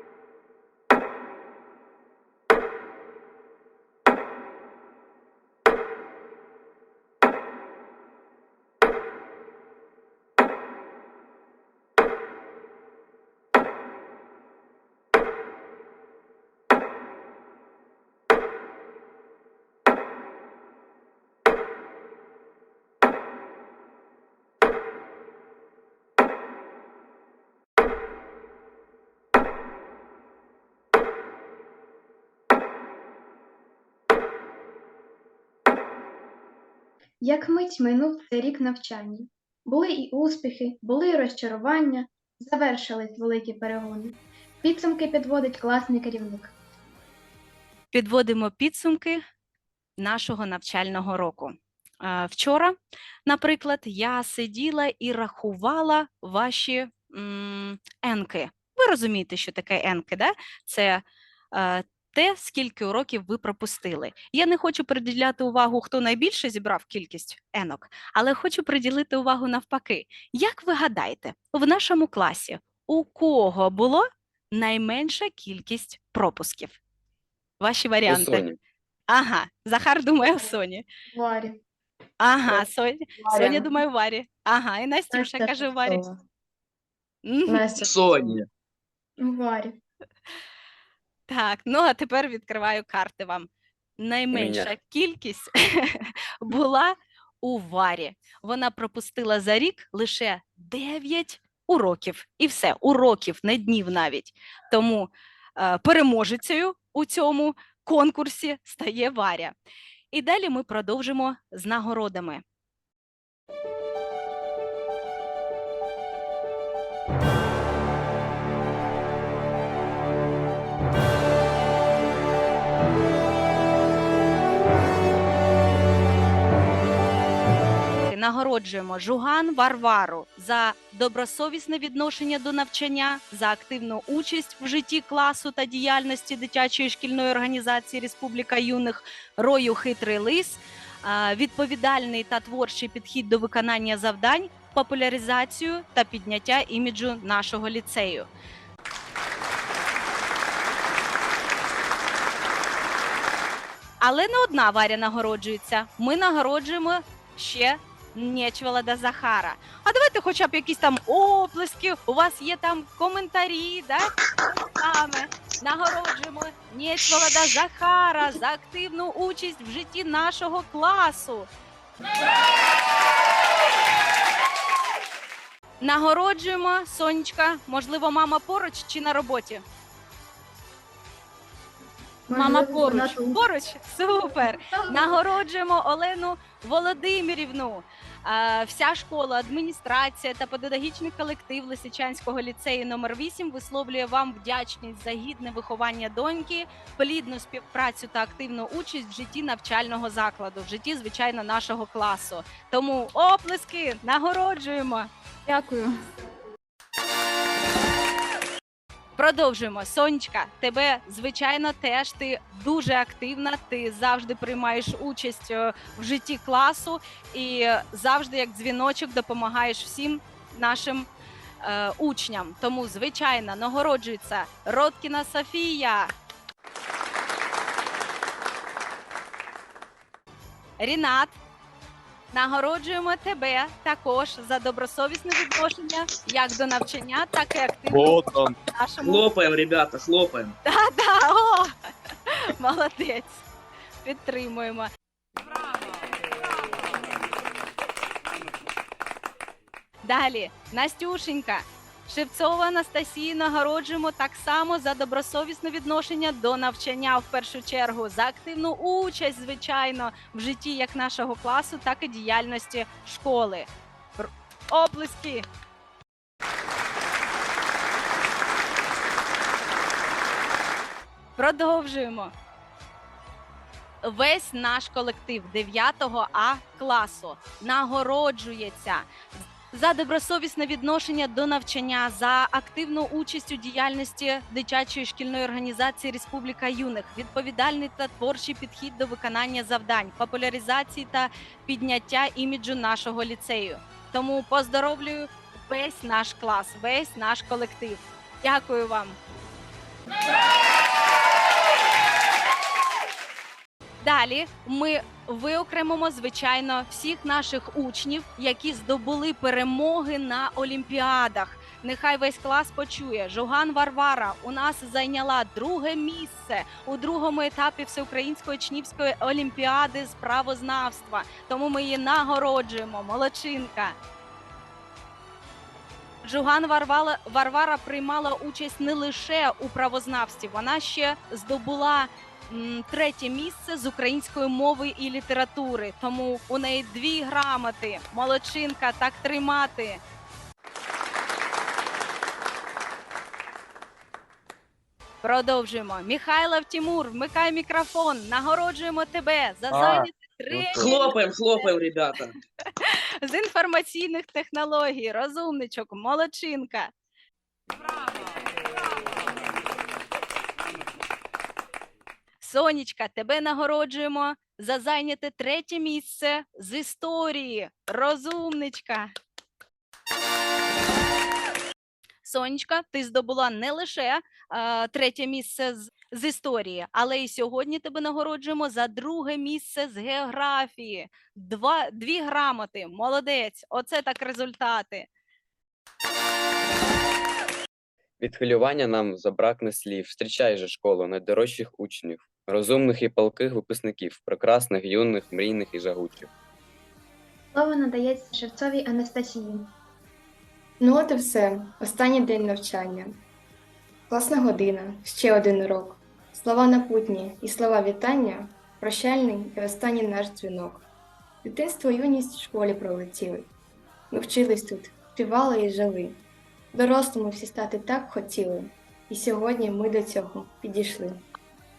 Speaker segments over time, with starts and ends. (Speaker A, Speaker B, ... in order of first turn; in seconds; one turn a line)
Speaker A: 37.2-46.5
Speaker B: 47.9-49.2
Speaker B: 50.0-76.8
Speaker B: 77.6-78.5
Speaker C: 78.1-78.6
Speaker B: 79.1-80.8
Speaker A: 81.1-81.6
Speaker B: 82.2-86.0
Speaker D: 83.2-83.7
Speaker A: 83.3-83.7
Speaker A: 85.1-86.0
Speaker B: 87.2-87.8
Speaker D: 87.5-87.9
Speaker E: 87.8-88.5
Speaker A: 89.2-89.8
Speaker B: 91.3-109.5
Speaker C: 94.3-94.7
Speaker B: 110.1-112.4
Speaker B: 128.1-148.3
Speaker B: 154.0-164.1
Speaker B: 164.6-171.5
Speaker B: 175.8-179.6
Speaker A: 182.3-183.4
Speaker B: 182.3-205.1
Speaker A: 184.4-185.2
Speaker B: 209.2-221.1
Speaker B: 221.6-226.1
Speaker B: 230.8-231.3
Speaker B: 232.3-239.3
Speaker C: 238.0-238.5
Speaker E: 239.0-240.6
Speaker B: 240.6-241.7
Speaker B: 242.3-243.4
Speaker B: 244.0-244.9
Speaker B: 250.0-265.4
Speaker B: 271.4-272.3
Speaker B: 274.0-279.1
Speaker B: 279.7-299.2
Speaker B: 304.0-323.9
Speaker B: 326.2-340.0
Speaker B: 345.2-351.7
Speaker E: 350.7-352.3
Speaker B: 352.8-356.9
Speaker B: 362.4-369.1
Speaker B: 372.2-385.1
Speaker C: 388.2-396.3
Speaker A: 397.5-399.7
Speaker D: 400.8-403.2
Speaker D: 404.1-410.8
Speaker D: 411.4-413.5
Speaker D: 414.1-416.2
Speaker D: 416.7-421.2